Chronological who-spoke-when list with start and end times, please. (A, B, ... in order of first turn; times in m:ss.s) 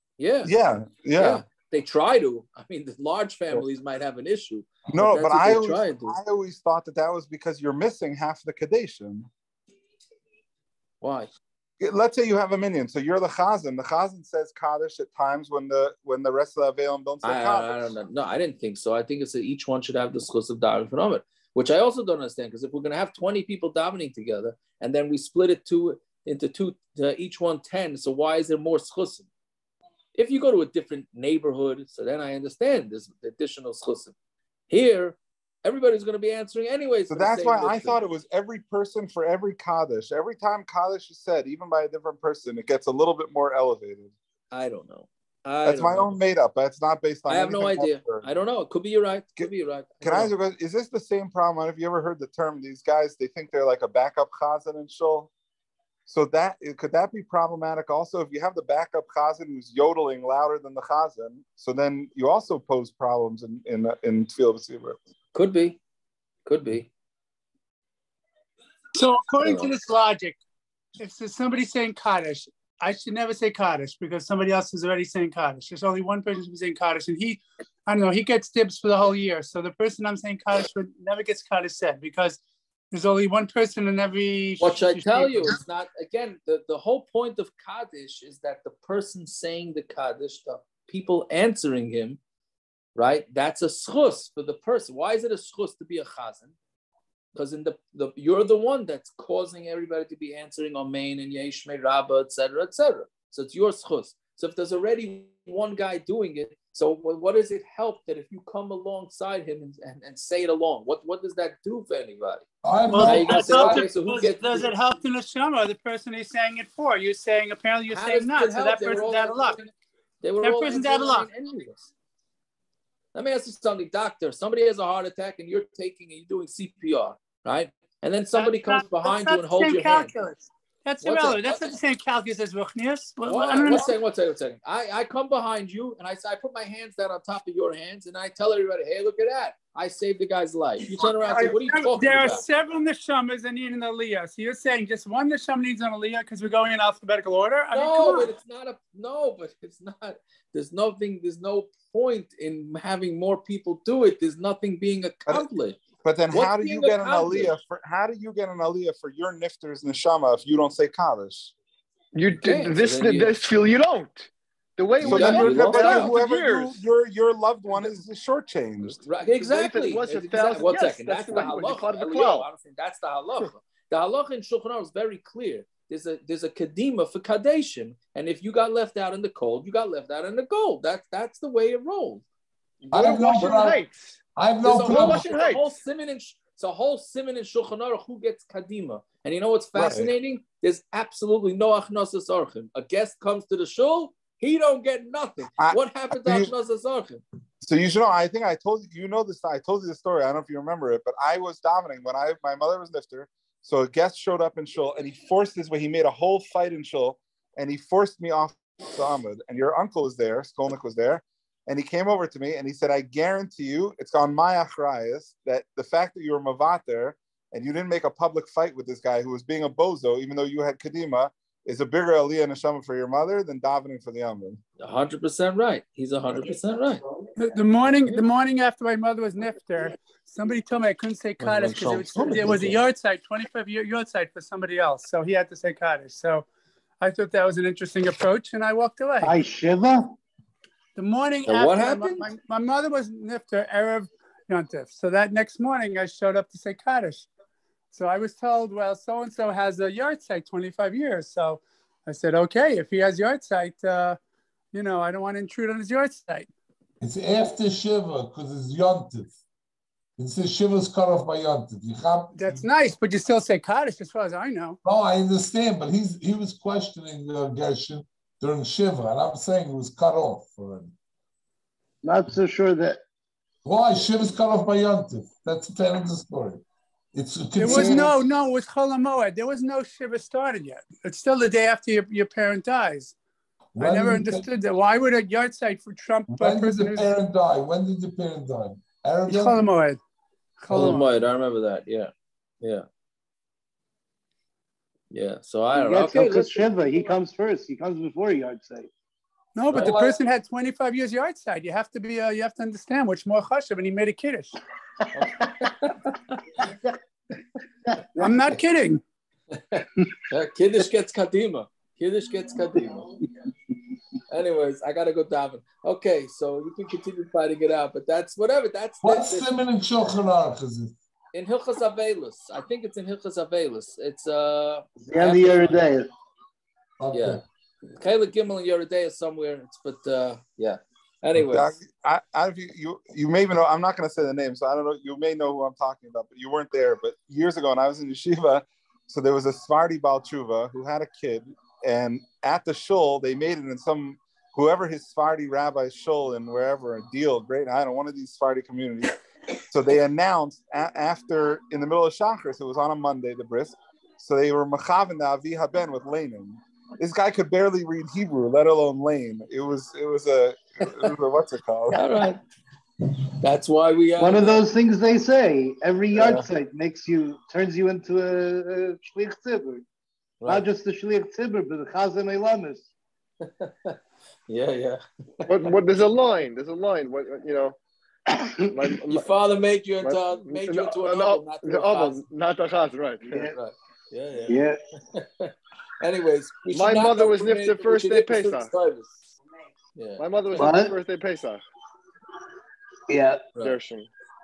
0:00.2-0:00.5 A
0:00.4-0:01.4 B
0:01.2-0:06.2 A
0:04.9-0:09.3 B
0:11.0-0:11.3 A
0:11.8-0:17.9 B
0:17.2-0:29.3 A
0:30.2-0:34.1 A
0:34.7-0:38.0 A
0:37.1-0:44.1 B
0:44.5-0:46.2 A
0:45.6-0:48.3 B
0:47.3-0:50.3 A
0:49.4-0:55.3 B
0:56.1-1:05.0 B
1:05.3-1:05.8 A
1:06.5-1:06.9 A
1:08.9-1:10.4 C
1:09.4-1:09.7 A
1:11.0-1:22.4 C
1:22.9-1:25.6 C
1:24.6-1:32.2 A
1:33.0-1:36.6 A
1:37.4-1:52.4 A
1:52.6-1:53.9 D
1:52.9-1:59.6 C
1:53.0-1:54.7 A
1:57.9-1:59.7 A
2:00.2-2:01.9 A
2:00.4-2:01.3 C
2:03.2-2:10.1 A
2:08.3-2:14.0 C
2:11.0-2:11.7 A
2:13.2-2:22.4 A
2:20.9-2:28.3 C
2:27.7-2:37.6 A
2:36.0-2:41.5 B
2:42.1-2:46.8 E
2:42.4-2:43.4 A
2:45.0-2:49.0 B
2:45.0-2:46.2 A
2:48.8-2:52.5 E
2:49.0-3:02.2 A
3:02.8-3:04.2 E
3:02.9-3:03.8 D
3:04.4-3:05.3 D
3:04.6-3:17.2 A
3:04.8-3:05.7 E
3:09.7-3:10.1 B
3:15.6-3:16.5 B
3:17.6-3:44.6 B
3:44.8-3:47.0 A
3:47.4-3:56.5 C
3:51.5-3:52.6 A
3:57.0-3:59.4 C
3:59.2-4:00.1 F
4:01.0-4:07.3 C
4:01.5-4:02.3 A
4:07.9-4:14.2 C
4:14.7-4:16.5 C
4:17.0-4:19.3 D
4:20.2-4:22.7 D
4:22.4-4:24.8 C
4:24.8-4:30.9 D
4:32.0-4:33.0 F
4:33.6-4:38.2 D
4:37.6-4:43.2 C
4:43.8-4:44.5 D
4:43.8-4:47.1 C
4:46.3-4:49.7 D
4:49.3-4:50.0 C
4:50.6-4:51.1 C
4:50.7-4:51.0 D
4:50.7-4:52.1 A
4:55.1-4:56.7 A
4:55.7-4:58.9 F
4:59.6-5:04.5 C
4:59.7-5:00.2 A
5:05.1-5:06.4 A
5:08.2-5:09.0 C
5:09.5-5:13.1 A
5:14.3-5:19.5 A
5:19.0-5:21.0 D
5:21.3-5:25.8 A
5:25.0-5:26.1 F
5:27.0-5:27.4 D
5:27.1-5:31.8 A
5:31.4-5:49.1 B
5:49.7-6:02.1 B
6:01.9-6:02.4 A
6:03.4-6:04.6 A
6:04.2-6:09.8 F
6:06.2-6:06.5 A
6:10.4-6:10.7 A
6:10.5-6:12.9 F
6:13.4-6:14.0 A
6:14.5-6:16.0 A
6:15.5-6:17.8 E
6:18.3-6:18.9 F
6:18.7-6:19.3 E
6:19.1-6:22.2 A
6:20.0-6:23.4 E
6:23.4-6:24.6 A
6:24.5-6:24.8 F
6:25.1-6:29.2 A
6:26.7-6:28.7 E
6:30.0-6:30.2 A
6:30.2-6:31.6 E
6:30.6-6:31.0 F
6:33.1-6:33.4 F
6:33.6-6:34.1 E